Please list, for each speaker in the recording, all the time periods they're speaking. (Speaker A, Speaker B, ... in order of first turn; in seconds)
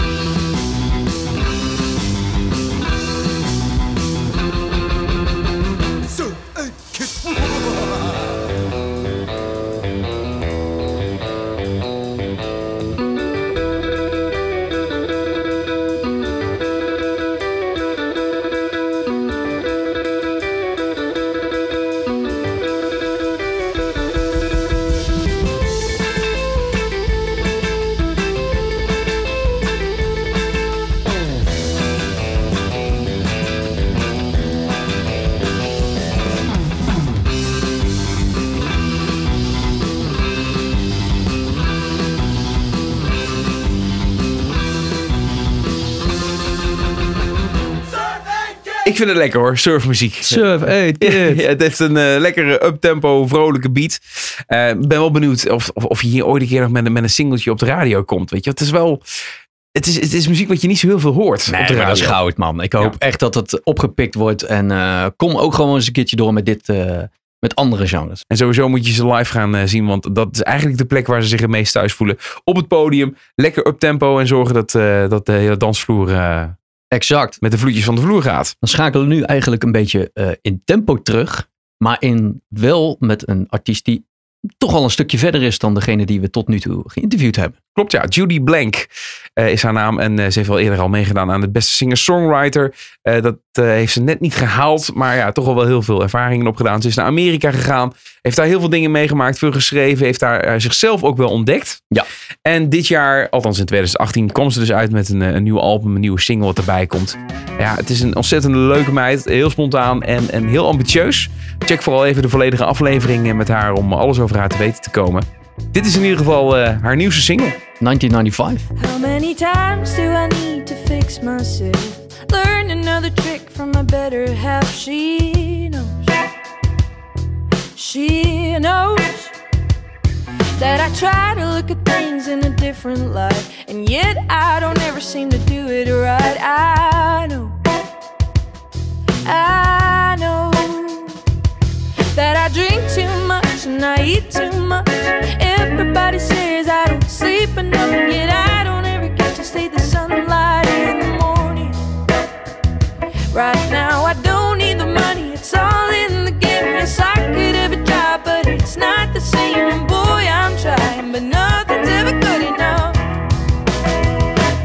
Speaker A: 48.8-59.0, 59.7-62.2, 68.3-76.5, 77.4-78.5, 87.8-101.8, 102.4-117.6
Speaker B: 50.2-51.4, 61.5-68.2, 76.9-77.4, 78.6-84.0, 84.6-87.5, 117.8-118.6
Speaker C: 118.8-126.2, 127.8-129.3, 130.6-137.6, 139.2-141.2, 142.1-151.8, 153.3-163.0